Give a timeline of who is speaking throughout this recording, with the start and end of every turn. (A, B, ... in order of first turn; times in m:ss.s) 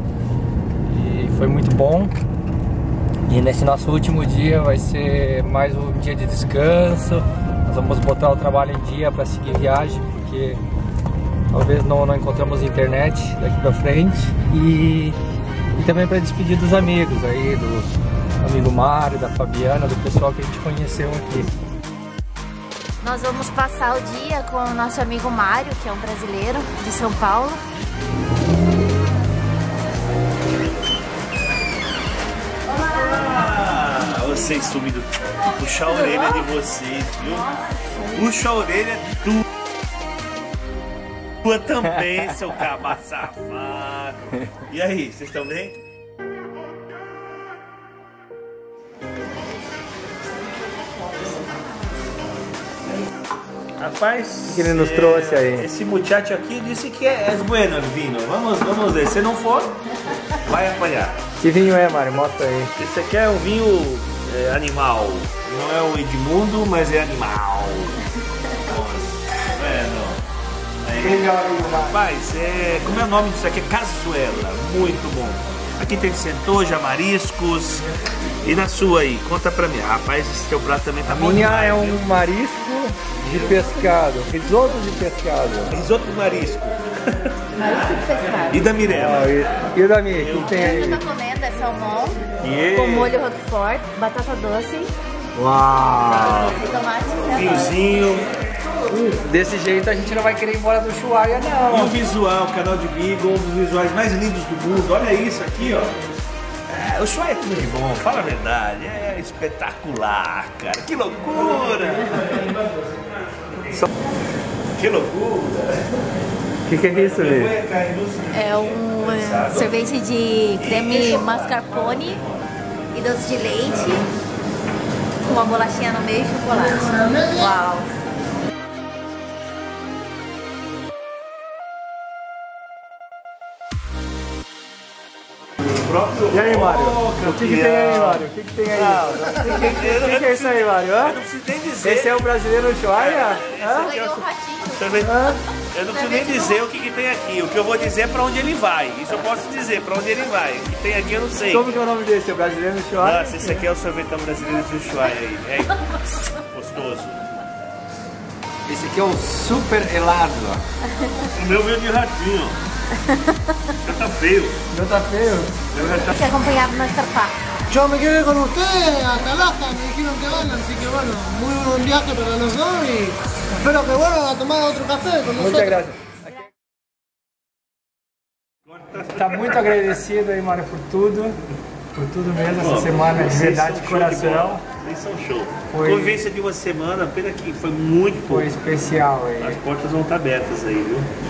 0:00.8-0:02.1 A
0:03.3-0:10.6 A
0:11.5-0:15.2 A
0:15.8-0:17.9 A
0:18.4-0:21.5 A
0:23.0-0:27.6 B
0:32.7-0:39.4 C
0:41.4-0:45.8 C
0:53.8-0:59.7 C
0:54.5-0:55.7 A
1:00.4-1:01.2 C
1:01.4-1:02.7 A
1:02.8-1:08.0 C
1:08.6-1:10.2 C
1:10.8-1:17.9 C
1:11.0-1:12.0 A
1:18.4-1:22.1 C
1:21.0-1:25.8 A
1:25.7-1:26.8 C
1:27.5-1:28.6 B
1:28.5-1:29.4 C
1:28.9-1:31.0 A
1:30.1-1:30.6 C
1:30.3-1:34.9 B
1:32.4-1:33.2 C
1:35.4-1:36.6 A
1:36.4-1:37.8 B
1:37.2-1:38.3 C
1:38.9-1:41.9 A
1:41.7-1:45.9 C
1:46.7-1:53.8 C
1:54.7-1:56.0 C
1:56.7-1:57.6 A
1:56.8-1:59.8 C
1:58.3-2:02.2 B
2:00.6-2:02.5 C
2:02.9-2:04.1 B
2:05.2-2:07.9 B
2:06.6-2:07.5 D
2:15.8-2:22.3 C
2:16.3-2:21.2 A
2:21.8-2:23.9 A
2:22.9-2:31.8 C
2:23.7-2:25.1 B
2:25.0-2:25.4 A
2:25.9-2:26.6 B
2:31.5-2:33.6 A
2:33.0-2:37.4 C
2:38.6-2:40.6 A
2:41.3-2:42.6 C
2:43.1-2:43.5 B
2:43.8-2:44.6 C
2:44.7-2:45.5 A
2:45.7-2:46.1 C
2:46.1-2:47.3 B
2:47.7-2:55.8 D
2:55.4-2:56.1 A
2:58.7-2:59.6 C
2:59.2-3:01.4 A
3:01.9-3:04.6 A
3:02.4-3:08.5 C
3:05.7-3:06.2 A
3:08.3-3:09.6 A
3:09.4-3:11.1 C